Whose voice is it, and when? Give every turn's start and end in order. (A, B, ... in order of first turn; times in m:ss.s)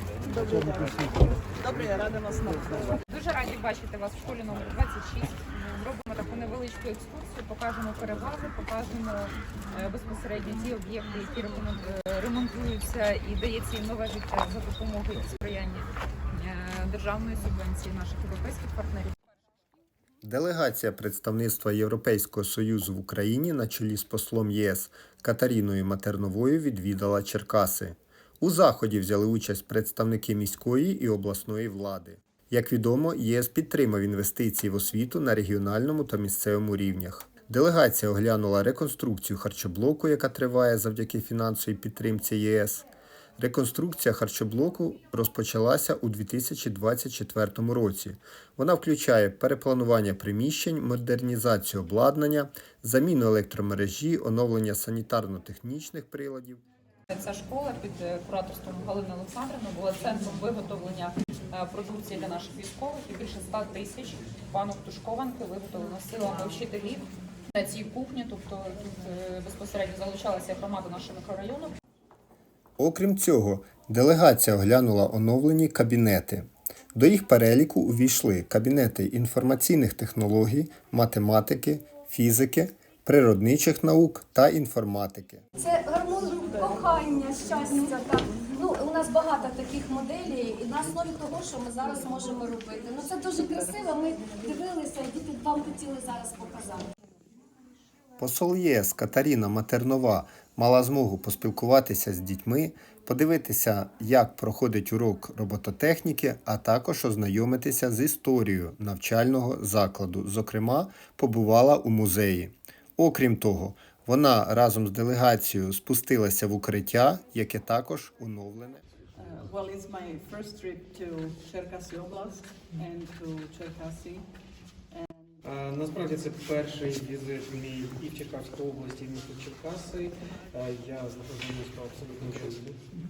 0:00.2-0:03.0 A
0:03.1-0:19.1 B
0:20.2-0:42.8 C
0:43.4-0:56.6 C
0:57.1-1:11.7 B
1:12.8-1:25.4 C
1:25.6-1:36.8 D
1:38.2-1:58.8 C
1:59.2-2:04.3 A
2:04.9-2:05.4 A
2:05.4-2:12.8 E